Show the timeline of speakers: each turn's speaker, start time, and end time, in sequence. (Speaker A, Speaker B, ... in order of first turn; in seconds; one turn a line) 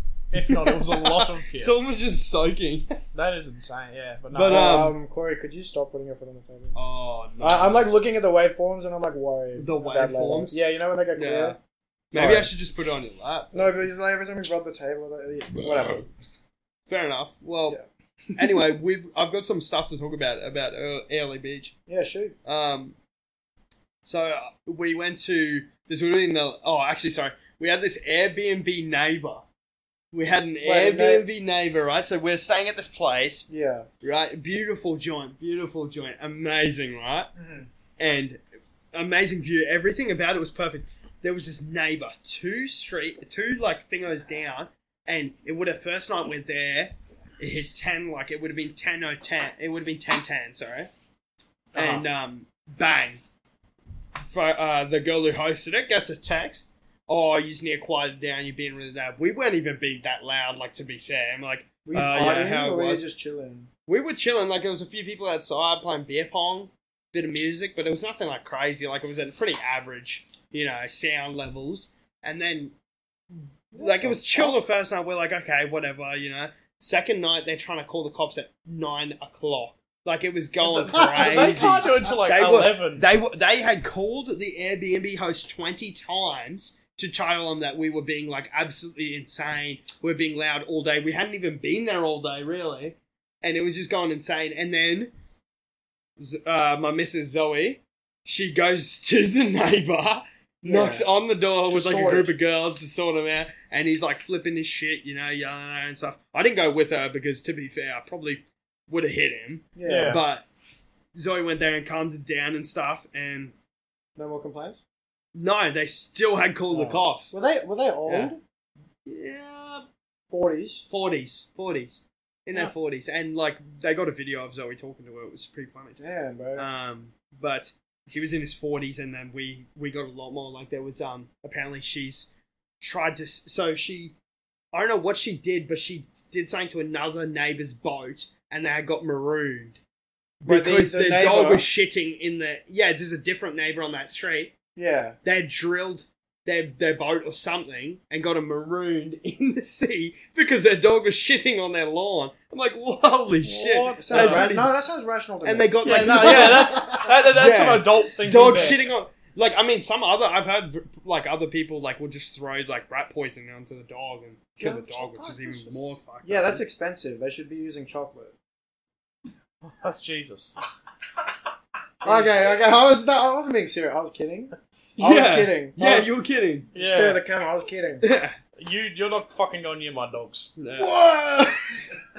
Speaker A: 0.3-1.9
Speaker B: 0.4-3.0
Speaker A: 3.1-4.9
Speaker B: 4.3-4.9
Speaker C: 4.4-6.8
Speaker B: 6.7-7.8
Speaker C: 7.4-11.6
Speaker B: 9.6-10.6
Speaker B: 11.2-11.6
Speaker B: 12.1-13.7
Speaker C: 12.1-12.5
Speaker C: 13.5-16.1
Speaker B: 16.9-17.8
Speaker B: 18.4-21.7
Speaker C: 21.9-22.4
Speaker B: 22.4-22.9
Speaker B: 24.0-29.4
Speaker B: 30.1-33.5
Speaker C: 30.6-31.3
Speaker C: 33.5-33.9
Speaker B: 34.0-37.3
Speaker C: 37.4-37.7
Speaker B: 38.0-38.4
Speaker B: 38.9-50.9
Speaker C: 51.7-52.1
Speaker B: 51.7-53.2
Speaker B: 54.2-63.0
Speaker C: 61.8-63.7
Speaker B: 63.9-72.7
Speaker B: 73.3-95.1
Speaker C: 73.7-74.5
Speaker A: 80.6-83.0
Speaker C: 80.9-81.9
Speaker B: 96.2-110.4
Speaker C: 100.6-101.1
Speaker C: 101.7-102.3
Speaker C: 109.8-110.2
Speaker A: 109.8-110.2
Speaker B: 111.1-113.5
Speaker C: 114.2-114.8
Speaker B: 115.3-117.3
Speaker C: 116.7-118.4
Speaker B: 118.1-118.3
Speaker B: 119.0-119.8
Speaker C: 120.3-120.9
Speaker B: 120.9-126.0
Speaker C: 126.0-126.7
Speaker B: 126.5-134.2
Speaker B: 134.7-139.8
Speaker B: 140.4-144.5
Speaker C: 140.4-141.7
Speaker C: 144.7-145.2
Speaker B: 145.2-154.7
Speaker C: 153.4-157.3
Speaker A: 154.1-154.5
Speaker B: 155.4-166.6
Speaker A: 155.8-158.8
Speaker A: 164.6-166.0
Speaker C: 166.2-168.3
Speaker A: 169.6-170.6
Speaker C: 172.0-176.1
Speaker A: 172.1-172.3
Speaker B: 175.0-176.8
Speaker A: 176.7-177.2
Speaker C: 176.7-178.1
Speaker B: 178.0-178.3
Speaker A: 178.6-180.5
Speaker B: 180.6-180.9
Speaker C: 180.7-181.8